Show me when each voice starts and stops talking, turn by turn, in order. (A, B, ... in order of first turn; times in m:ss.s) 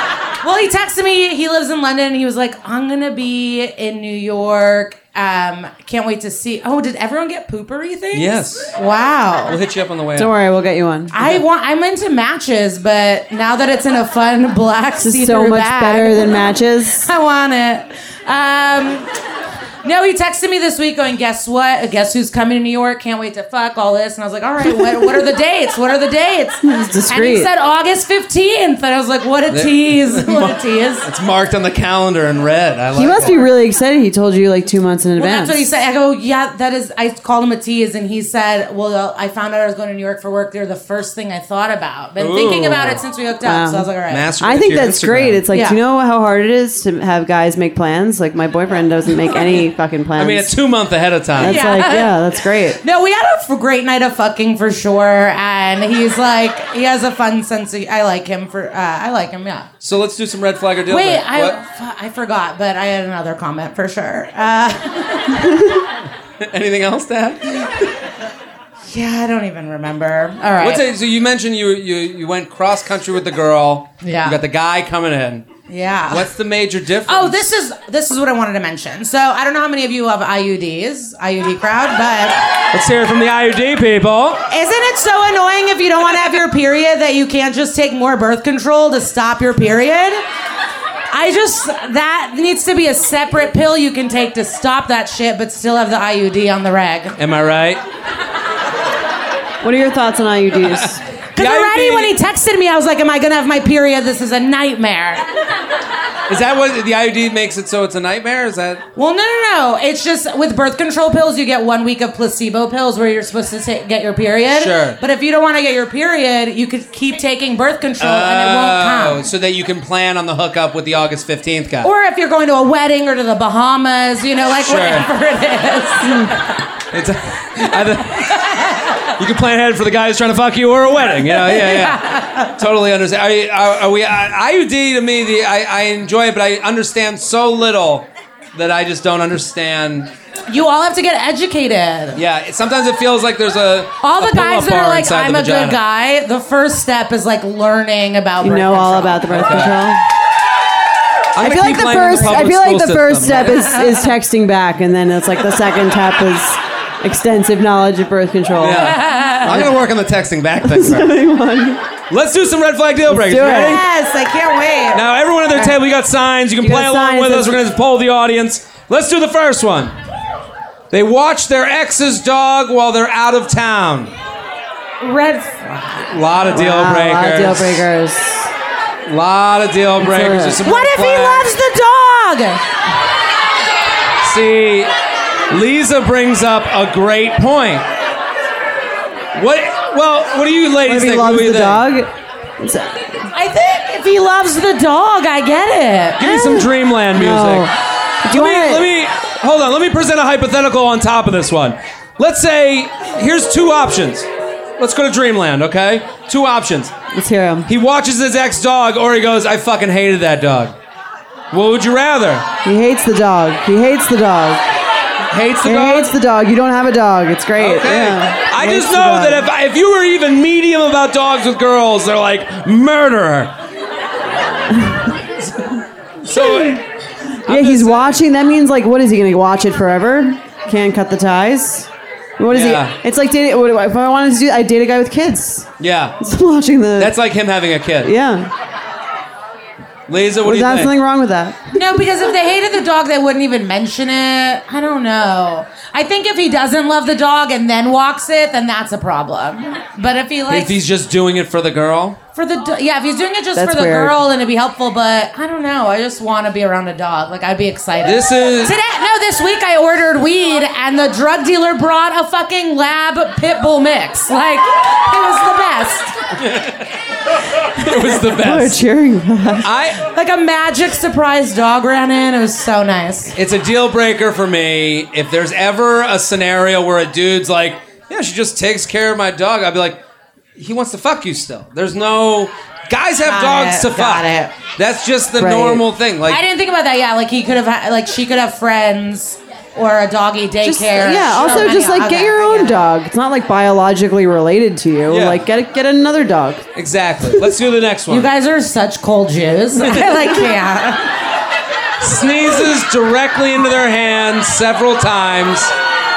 0:00.4-0:09.6 A
0:08.1-0:08.8 B
0:09.5-0:10.3 B
0:10.2-0:11.1 C
0:11.1-0:16.5 A
0:15.0-0:17.1 C
0:17.0-0:19.1 A
0:19.8-0:31.1 A
0:26.6-0:27.5 C
0:29.5-0:33.4 B
0:32.9-0:35.6 C
0:33.2-0:33.5 A
0:35.2-0:44.3 A
0:42.2-0:43.0 B
0:43.4-0:43.9 C
0:44.1-0:45.4 B
0:44.4-0:50.5 C
0:45.5-0:45.8 A
0:50.1-0:51.6 B
0:51.4-0:52.8 C
0:51.4-0:59.7 A
0:59.8-1:01.6 B
1:00.9-1:05.7 A
1:06.4-1:07.9 B
1:08.9-1:10.8 A
1:10.6-1:15.5 B
1:14.0-1:14.4 A
1:15.7-1:16.3 A
1:16.1-1:17.6 B
1:17.1-1:22.4 A
1:22.7-1:24.4 B
1:24.5-1:30.2 A
1:31.1-1:37.2 A
1:37.2-1:37.8 B
1:39.6-1:41.0 C
1:40.6-1:42.1 B
1:41.4-1:45.3 A
1:46.3-1:48.8 B
1:49.0-1:59.2 A
1:54.5-1:55.0 B
1:58.0-2:01.9 B
2:01.8-2:06.4 A
2:04.6-2:05.1 B
2:06.9-2:08.4 B
2:09.2-2:12.0 B
2:11.2-2:12.5 A
2:12.6-2:20.1 B
2:20.5-2:22.2 A
2:22.1-2:25.8 B
2:24.0-2:29.3 A
2:28.4-2:30.0 C
2:29.3-2:29.7 B
2:31.3-2:33.8 B
2:31.4-2:38.9 C
2:38.6-2:41.2 B
2:38.7-2:39.7 A
2:40.6-2:41.8 C
2:42.1-2:43.9 B
2:43.1-2:43.8 C
2:43.5-2:45.7 A
2:44.9-2:49.9 B
2:46.6-2:47.6 C
2:50.9-2:54.1 B
2:55.0-2:56.2 A
2:56.1-2:57.9 B
2:56.5-2:58.5 C
2:59.0-3:01.5 B
3:00.0-3:00.6 C
3:00.6-3:02.6 A
3:04.2-3:04.9 B
3:05.5-3:07.9 B
3:09.3-3:11.9 B
3:10.9-3:13.3 C
3:13.3-3:16.3 A
3:16.2-3:17.7 B
3:16.2-3:18.9 C
3:18.3-3:26.9 B
3:27.1-3:27.7 C
3:27.6-3:30.7 B
3:31.5-3:32.4 B
3:32.6-3:34.6 C
3:35.3-3:36.1 B
3:35.6-3:39.5 C
3:37.6-3:43.5 B
3:44.7-3:45.2 C
3:45.4-3:46.8 B
3:46.4-3:46.8 C
3:47.4-3:55.7 C
3:47.5-3:48.2 B
3:52.5-3:53.0 B
3:55.8-3:56.2 B
3:56.2-3:57.1 C
3:57.0-3:58.1 B
3:58.0-3:58.5 C
4:00.1-4:00.9 B
4:00.4-4:01.7 C
4:01.7-4:10.7 A
4:10.5-4:12.2 B
4:12.4-4:26.1 A
4:13.6-4:14.2 C
4:18.0-4:18.8 B
4:26.3-4:26.9 B
4:27.7-4:28.8 B
4:28.3-4:29.7 C
4:29.6-4:30.1 B
4:30.0-4:33.3 A
4:33.3-4:40.0 B
4:40.6-4:46.4 B
4:43.2-4:44.6 A
4:45.4-4:45.8 C
4:46.3-4:52.8 A
4:50.6-4:56.6 C
4:55.1-4:55.4 B
4:56.8-4:58.3 B
4:58.1-5:01.1 A
5:02.0-5:05.7 B